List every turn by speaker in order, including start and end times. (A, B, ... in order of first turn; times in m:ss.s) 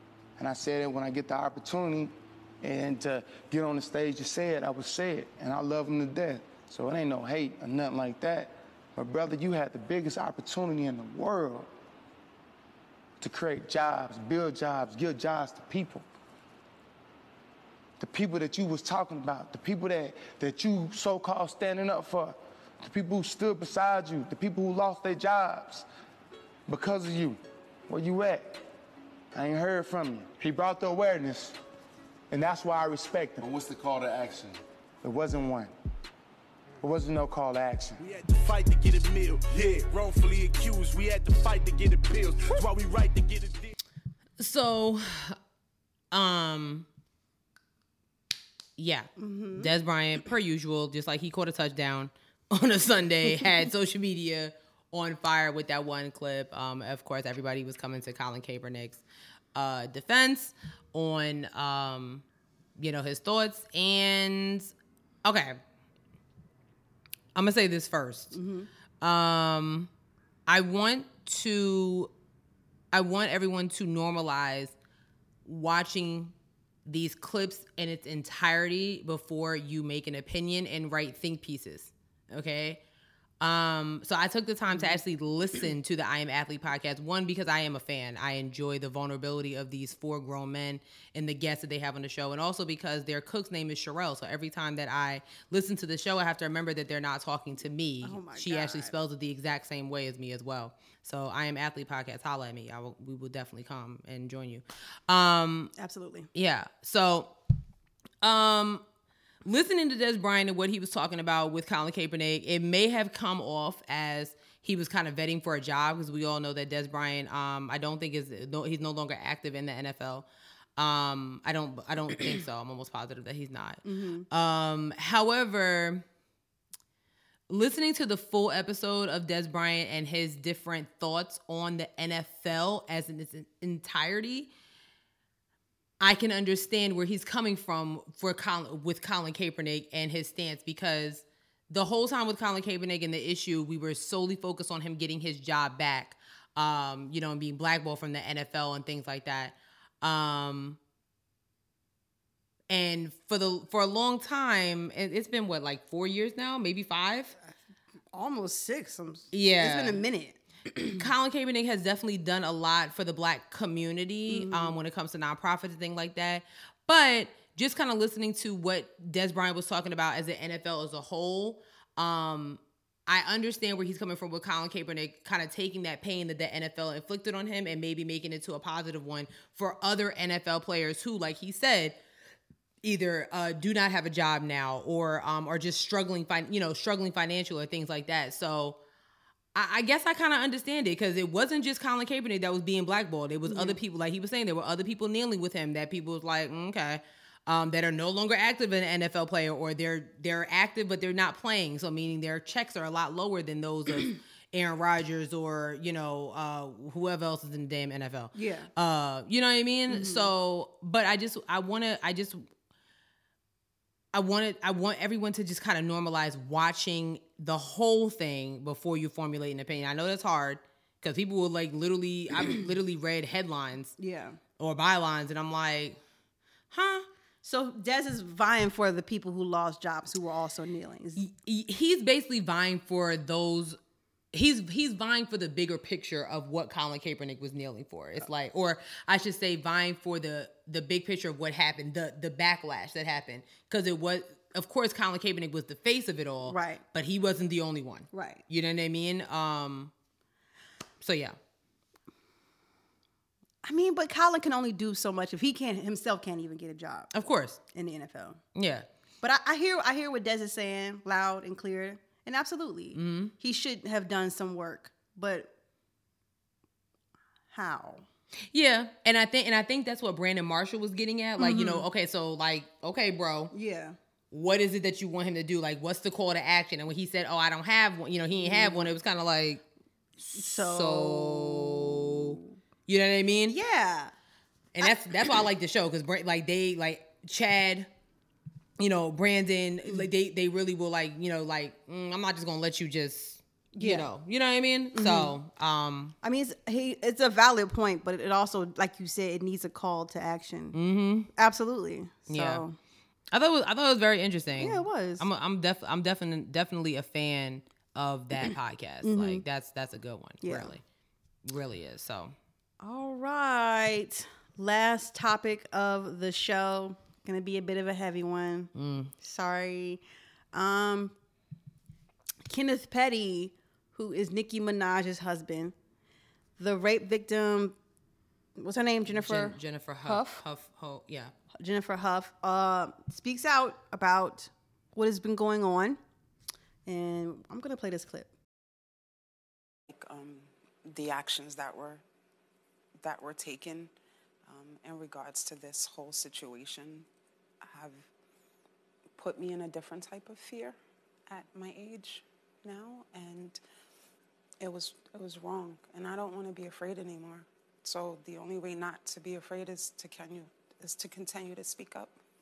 0:00.4-0:11.7 A
0:13.2-0:16.0 A
0:18.0-0:25.8 A
0:26.7-0:28.6 A
0:29.3-0:31.6 A
0:32.3-0:35.7 A
0:36.8-0:38.0 A
0:38.0-0:43.7 B
0:44.4-0:45.4 C
0:46.1-0:46.9 C
0:48.8-0:59.0 C
0:49.2-0:49.7 D
0:59.5-1:02.2 C
1:02.8-1:04.7 C
1:05.2-1:05.6 C
1:07.3-1:08.4 C
1:08.3-1:08.7 D
1:09.0-1:09.9 C
1:10.5-1:12.1 C
1:12.9-1:14.7 C
1:15.4-1:16.3 C
1:16.8-1:22.8 C
1:23.4-1:45.7 C
1:24.7-1:25.0 D
1:38.0-1:38.9 D
1:45.8-1:46.3 D
1:46.3-1:47.3 C
1:48.2-1:48.8 C
1:49.4-2:00.2 C
2:00.8-2:06.0 C
2:03.8-2:04.3 D
2:07.5-2:14.5 C
2:16.0-2:30.8 C
2:32.7-2:37.4 C
2:38.1-2:41.0 D
2:39.3-2:40.0 C
2:40.8-3:02.0 C
2:44.3-2:44.8 D
3:02.8-3:08.8 C
3:09.5-3:32.4 C
3:13.4-3:13.8 D
3:28.3-3:28.7 D
3:29.9-3:30.3 D
3:34.1-3:43.9 C
3:44.0-3:44.4 D
3:44.6-3:46.0 C
3:46.7-3:47.1 C
3:47.4-3:51.2 D
3:51.2-3:53.8 C
3:54.3-4:09.9 C
4:06.4-4:06.8 D
4:08.1-4:08.4 D
4:11.0-4:11.4 C
4:13.6-4:17.1 D
4:17.1-4:17.6 C
4:17.7-4:18.4 D
4:18.5-4:18.9 C
4:19.2-4:25.5 D
4:22.9-4:23.3 C
4:27.5-4:28.0 D
4:28.5-4:33.5 C
4:31.4-4:31.9 D
4:33.5-4:34.0 D
4:34.3-4:39.6 C
4:38.4-4:38.9 D
4:40.2-4:42.6 D
4:40.2-4:43.6 C
4:43.5-4:44.1 D
4:44.7-4:47.9 C
4:44.8-4:45.4 D
4:48.8-4:56.1 C
4:53.7-4:54.1 D
4:54.9-4:55.4 D
4:56.2-5:00.8 D
5:00.7-5:01.3 C
5:01.3-5:02.8 D
5:02.3-5:02.6 C
5:03.3-5:10.8 C
5:04.6-5:05.3 D
5:09.0-5:09.4 D
5:10.4-5:10.7 D
5:11.4-5:12.3 C
5:12.8-5:21.2 D
5:18.7-5:19.1 C
5:22.4-5:25.7 D
5:26.6-5:27.8 D
5:28.6-5:30.4 D
5:29.1-5:31.3 C
5:31.6-5:36.0 D
5:36.8-5:38.3 D
5:39.9-5:42.0 E
5:43.0-5:43.9 E
5:44.4-5:47.1 E
5:47.6-5:48.1 E
5:49.2-5:50.8 E
5:51.3-5:53.6 E
5:54.6-6:02.2 E